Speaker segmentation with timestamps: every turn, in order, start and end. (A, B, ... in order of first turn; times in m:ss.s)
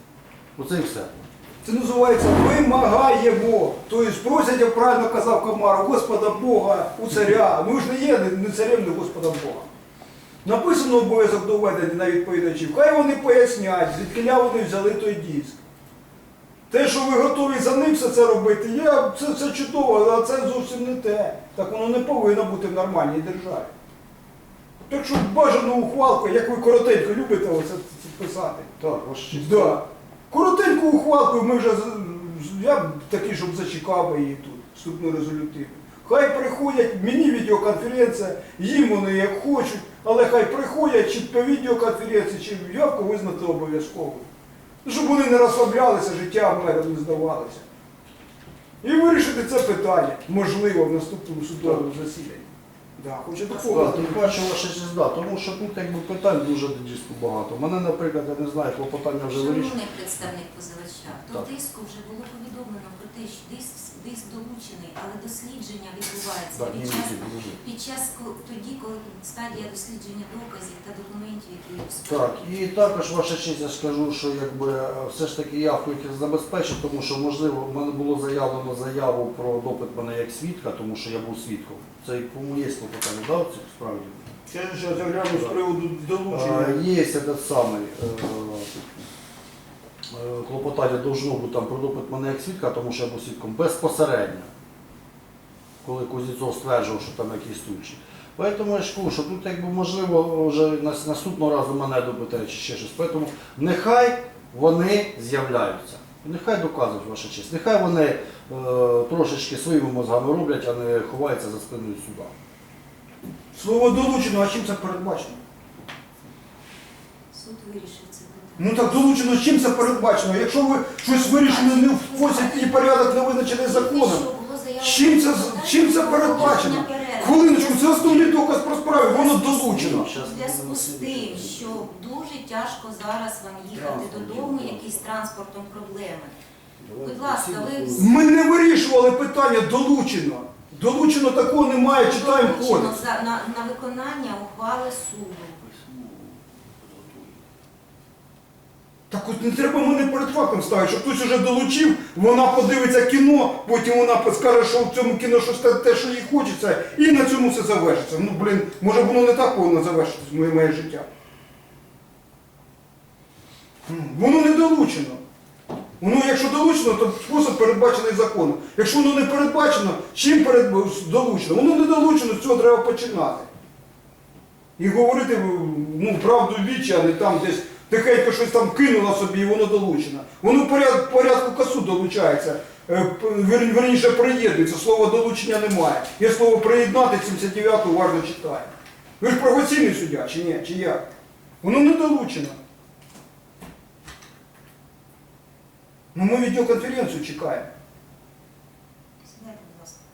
0:00.6-0:01.1 A
0:01.6-0:09.7 B
0:10.4-0:15.6 B
0:16.7-0:23.7 B
0:24.9-0:28.7 B
0:28.8-0:29.8 A
0:29.3-0:44.3 B
0:44.8-0:47.6 B
0:48.8-0:54.1 B
0:53.5-0:54.2 C
0:53.7-0:59.8 A
0:59.3-1:12.5 C
1:06.5-1:07.6 A
1:12.1-1:24.3 A
1:24.5-1:26.8 B
1:25.3-1:25.6 A
1:26.3-1:28.7 A
1:30.1-1:34.5 A
1:35.8-1:52.3 A
1:53.5-1:55.4 B
1:57.3-1:59.1 C
1:58.6-2:04.2 B
2:01.1-2:02.8 C
2:03.6-2:08.2 C
2:04.8-2:10.1 B
2:06.2-2:06.9 A
2:08.0-2:08.4 A
2:08.9-2:16.4 C
2:09.7-2:11.9 A
2:13.7-2:15.1 A
2:16.8-2:18.1 A
2:17.0-2:18.1 C
2:18.0-2:23.0 B
2:21.9-2:25.6 C
2:25.6-2:27.4 A
2:29.1-2:41.1 B
2:43.9-2:45.2 B
2:46.0-2:53.5 B
2:54.8-3:11.0 B
3:11.6-3:12.6 B
3:16.1-3:17.7 B
3:19.2-3:20.0 C